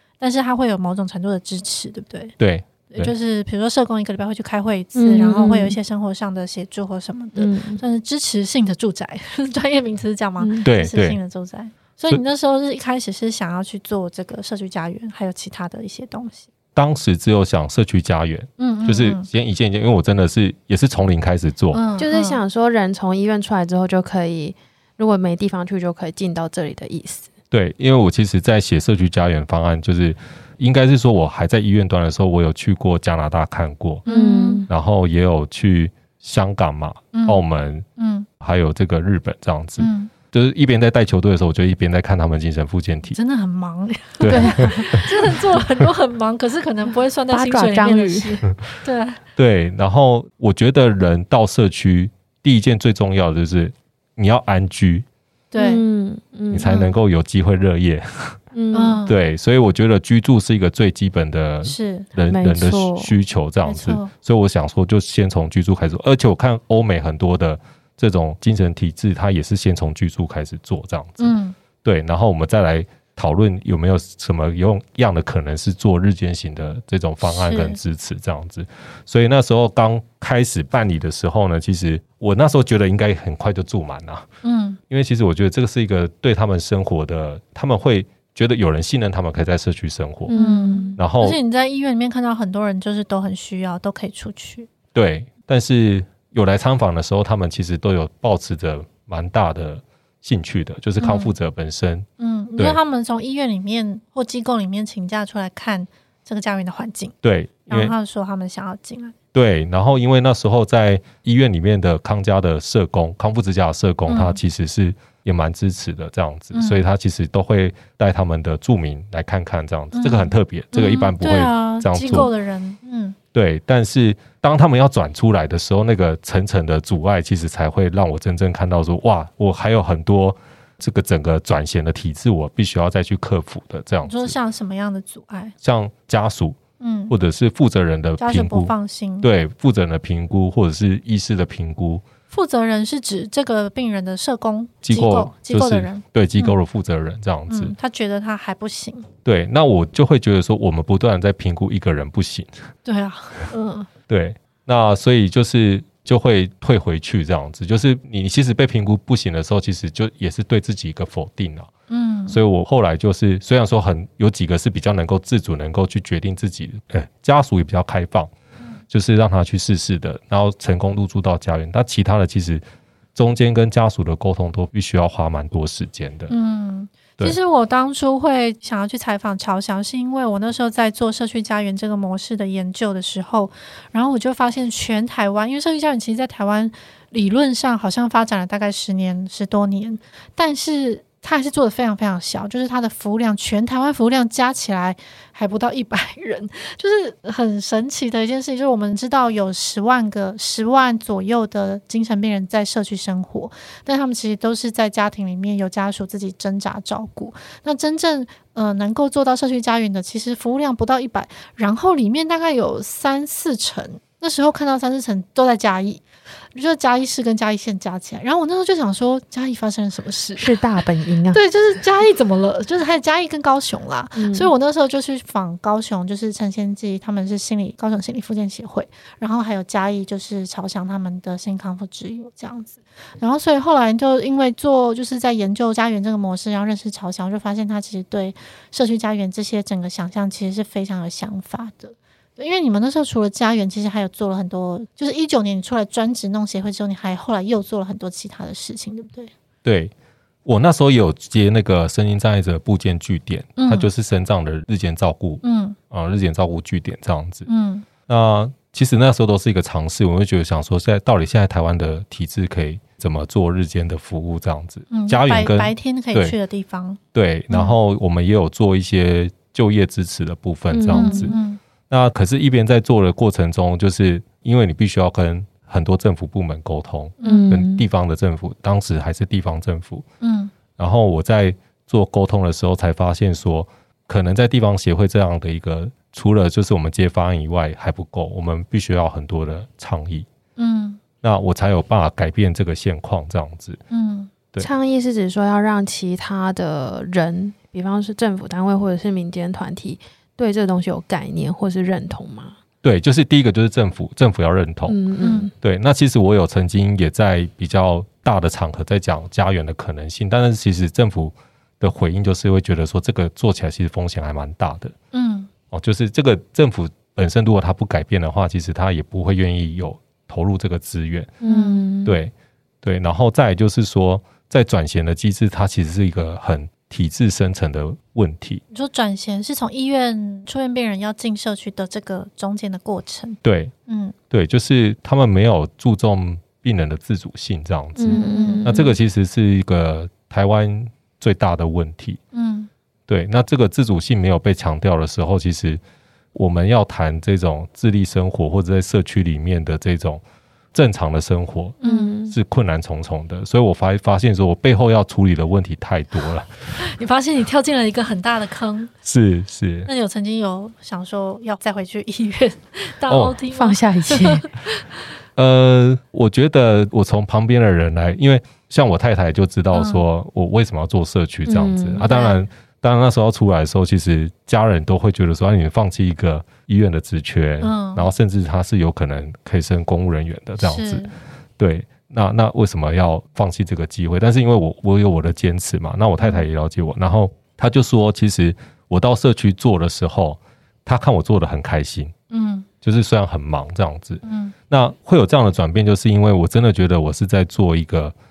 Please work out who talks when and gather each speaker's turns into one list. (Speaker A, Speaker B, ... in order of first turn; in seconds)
Speaker A: 0.2-2.3, 2.9-16.5, 18.6-19.3, 21.7-22.4, 34.0-34.6, 37.1-37.4, 38.0-38.3, 39.8-40.1, 43.1-49.2, 55.5-55.8, 56.6-56.9, 58.7-59.1, 61.6-62.1, 63.6-64.1, 71.2-71.5, 77.2-77.8, 84.4-84.8, 90.3-94.7, 101.0-101.3, 102.2-107.1, 107.7-109.1, 114.1-114.4, 116.5-116.8, 119.9-123.2, 134.0-135.5, 136.8-137.1, 138.2-139.3, 142.3-146.6, 147.5-149.1, 152.8-153.9, 161.9-162.4, 176.3-249.3, 253.6-253.9, 255.4-255.8, 257.4-257.9, 264.9-267.0, 267.5-267.8, 270.9-271.6, 277.2-277.5, 280.2-280.5, 290.6-291.0, 293.9-294.3, 305.2-305.5, 315.1-315.5, 321.4-321.8, 328.7-334.1, 338.1-338.6, 342.3-342.7, 351.8-352.1, 356.8-358.9, 359.9-365.0, 369.7-370.0, 372.0-372.4, 377.6-378.1, 380.6-381.1, 392.3-392.7, 394.2-394.5
Speaker B: 2.4-3.1, 10.6-11.2, 16.7-21.8, 27.5-34.0, 34.7-37.8, 38.4-43.2, 44.2-45.1, 49.4-55.0, 56.5-58.4, 59.0-84.3, 84.9-90.3, 91.0-91.4, 94.9-102.0, 107.2-107.9, 109.3-122.3, 123.3-134.3, 135.6-136.6, 137.1-142.0, 144.8-147.7, 149.2-152.6, 154.1-161.7, 162.3-168.3, 168.9-172.6, 173.2-176.3, 249.6-249.9, 250.4-257.5, 258.1-266.4, 267.1-271.4, 271.9-280.0, 280.8-290.3, 291.2-293.8, 302.8-305.0, 305.6-314.9, 315.7-321.4, 322.0-322.3, 322.8-328.6, 333.4-333.7, 334.3-342.2, 343.1-345.8, 346.3-350.2, 350.7-356.6, 359.0-359.9, 363.1-363.4, 365.4-381.1, 381.6-392.1, 392.8-398.1
Speaker C: 4.9-5.8, 7.3-7.8, 10.4-10.7, 22.0-27.3, 34.0-34.7, 44.3-44.9, 47.3-48.4, 55.6-56.7, 58.5-59.0, 62.3-63.1, 90.3-91.0, 220.4-221.4, 224.1-224.5, 270.7-271.3, 277.2-277.8, 294.6-302.6, 304.9-305.5, 321.4-322.2, 338.0-339.0, 351.8-352.3, 363.5-364.5, 371.4-372.1